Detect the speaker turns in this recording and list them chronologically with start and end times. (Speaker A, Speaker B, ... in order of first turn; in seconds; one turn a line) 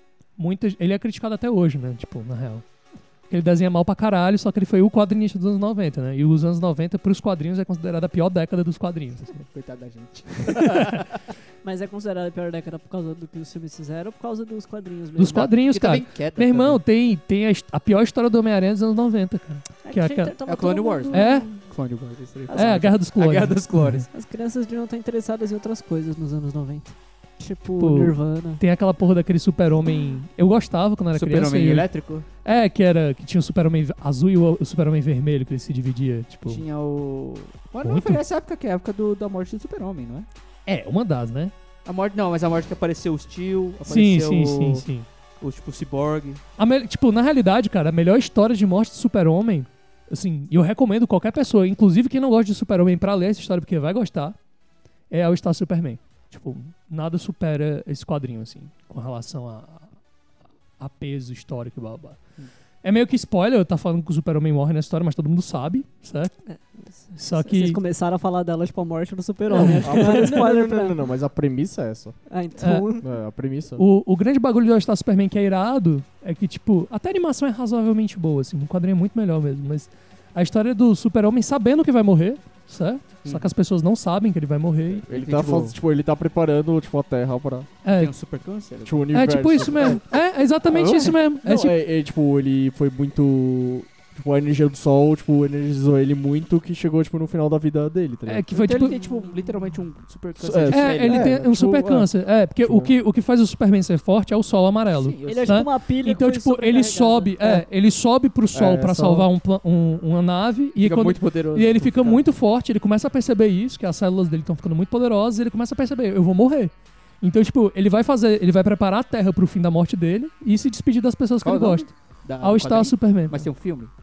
Speaker A: 0.4-2.6
Speaker A: 3.3-9.4
Speaker B: 9.4-11.3
Speaker A: 10.5-11.0
Speaker C: 11.6-15.5
Speaker A: 15.2-20.3
Speaker B: 15.6-16.8
Speaker C: 19.8-21.6
Speaker B: 20.4-24.1
Speaker A: 21.1-21.6
Speaker C: 22.5-22.8
Speaker A: 22.5-24.1
Speaker C: 24.1-28.6
Speaker A: 27.8-31.9
Speaker B: 31.1-32.3
Speaker A: 32.4-36.6
Speaker B: 36.5-40.3
Speaker A: 37.8-38.2
Speaker A: 40.6-41.5
Speaker B: 41.8-44.8
Speaker A: 43.8-45.0
Speaker B: 45.4-46.4
Speaker A: 46.6-54.4
Speaker A: 55.1-59.9
Speaker A: 60.8-62.2
Speaker A: 62.8-66.3
Speaker C: 66.5-70.9
Speaker A: 67.2-67.8
Speaker A: 69.5-70.3
Speaker D: 69.6-72.2
Speaker C: 72.3-73.1
Speaker A: 72.6-72.9
Speaker D: 73.0-73.8
Speaker A: 73.8-85.0
Speaker B: 83.2-83.5
Speaker B: 84.9-85.8
Speaker D: 85.1-87.7
Speaker A: 87.8-88.1
Speaker B: 87.9-89.0
Speaker D: 88.8-90.1
Speaker A: 89.1-91.8
Speaker D: 90.6-98.5
Speaker A: 98.2-99.0
Speaker B: 98.5-101.5
Speaker D: 100.4-102.1
Speaker A: 100.7-123.5
Speaker D: 102.6-102.9
Speaker B: 104.9-105.5
Speaker C: 105.2-107.6
Speaker D: 108.5-109.3
Speaker B: 110.8-112.2
Speaker B: 121.4-123.9